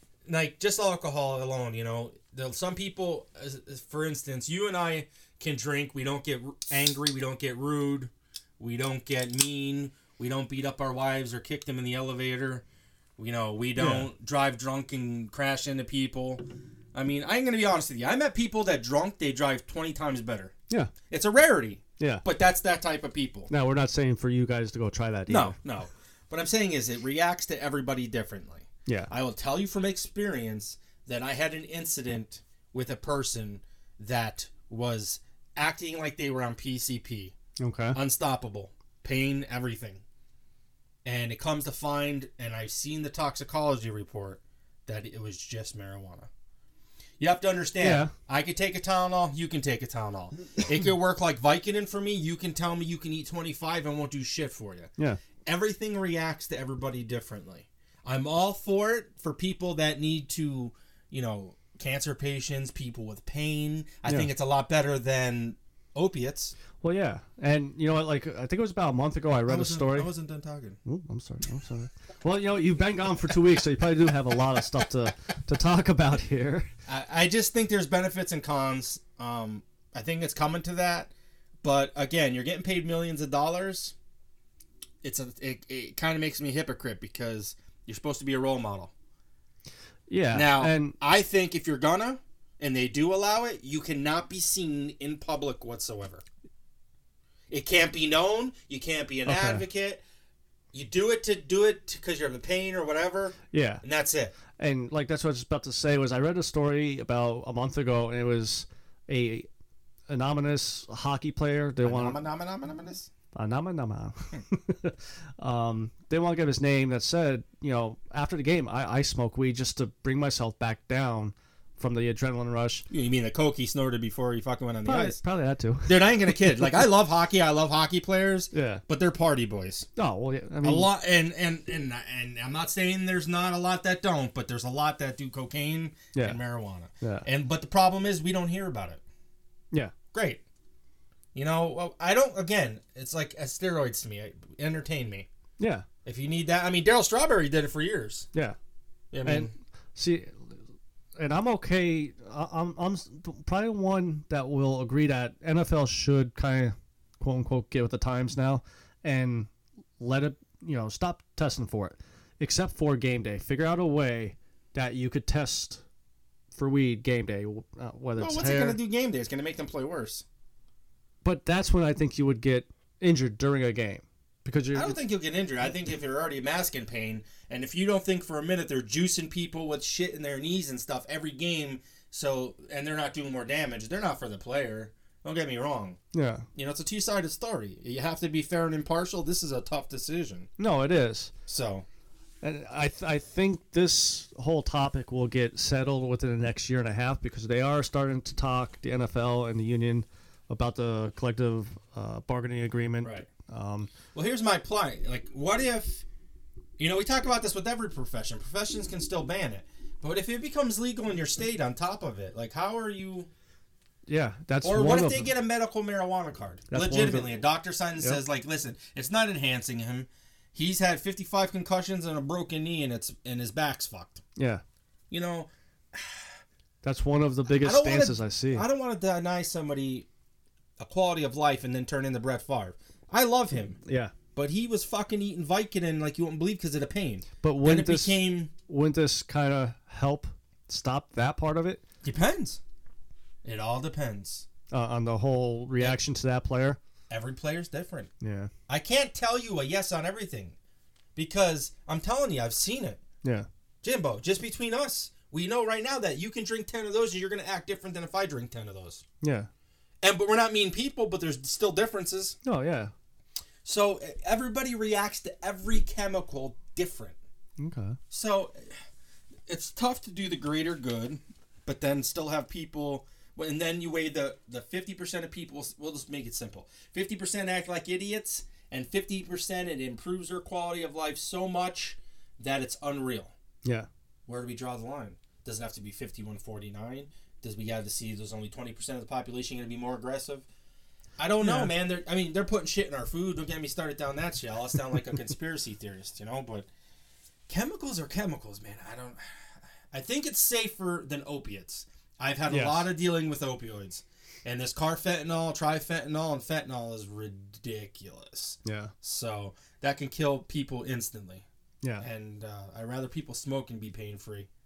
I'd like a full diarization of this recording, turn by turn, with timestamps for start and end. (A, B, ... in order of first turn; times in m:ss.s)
0:00.2-0:12.6 A
0:13.2-0:20.5 A
0:13.8-0:14.1 B
0:21.1-0:23.5 A
0:22.0-0:22.2 B
0:23.5-0:25.6 B
0:25.3-0:37.4 A
0:37.6-0:38.0 B
0:37.9-0:40.0 A
0:41.0-0:46.3 A
0:47.2-0:54.9 A
0:47.8-0:48.1 B
0:55.4-1:06.6 A
1:06.8-1:10.1 B
1:09.5-1:10.8 A
1:10.8-1:16.7 B
1:16.9-1:24.0 A
1:25.0-1:28.9 A
1:30.1-1:31.0 B
1:30.3-1:36.2 A
1:37.5-1:40.0 A
1:39.3-1:39.6 B
1:40.7-1:44.3 A
1:43.5-1:43.8 B
1:44.6-1:49.5 B
1:50.1-1:52.2 B
1:51.8-1:53.1 A
1:53.3-2:02.9 B
2:02.9-2:05.2 A
2:04.8-2:06.7 B
2:05.8-2:09.9 A
2:08.5-2:08.8 B
2:10.0-2:10.9 B
2:10.6-2:19.0 A
2:16.1-2:16.4 B
2:17.0-2:17.3 B
2:20.1-2:20.4 A
2:21.3-2:25.3 A
2:25.6-2:25.9 B
2:26.0-2:28.3 A
2:29.1-2:29.5 A
2:29.2-2:30.6 B
2:31.2-2:45.8 B
2:46.5-2:48.8 B
2:48.2-2:50.2 A
2:51.2-2:55.0 B
2:54.7-3:06.0 A
3:06.1-3:06.5 B
3:06.6-3:10.5 A
3:10.6-3:11.3 B
3:11.5-3:11.8 A
3:12.4-3:23.9 B
3:23.0-3:23.3 A
3:24.1-3:26.0 A
3:26.8-3:33.3 A
3:34.1-3:35.3 B
3:34.6-3:44.2 A
3:36.7-3:37.5 B
3:44.4-3:44.6 B
3:45.1-3:46.4 A
3:46.8-3:48.7 B
3:47.5-3:50.1 A
3:50.8-3:53.8 A
3:53.8-3:54.1 B
3:54.3-3:58.5 A
3:57.4-4:01.8 B
4:02.0-4:02.6 A
4:03.4-4:04.5 A
4:04.7-4:06.8 B
4:07.1-4:08.1 A
4:08.2-4:08.5 B
4:08.7-4:10.6 A
4:11.2-4:13.0 A
4:13.8-4:19.0 A
4:19.2-4:19.5 B
4:20.0-4:22.4 A
4:22.4-4:22.9 B
4:23.6-4:27.2 A
4:27.6-4:28.0 B
4:28.1-4:28.7 A
4:29.5-4:43.3 A
4:44.3-4:50.5 A
4:51.2-4:56.7 A
4:51.4-4:51.8 B
4:57.5-5:11.4 A
5:02.5-5:02.9 B
5:08.6-5:08.9 B
5:12.0-5:14.5 A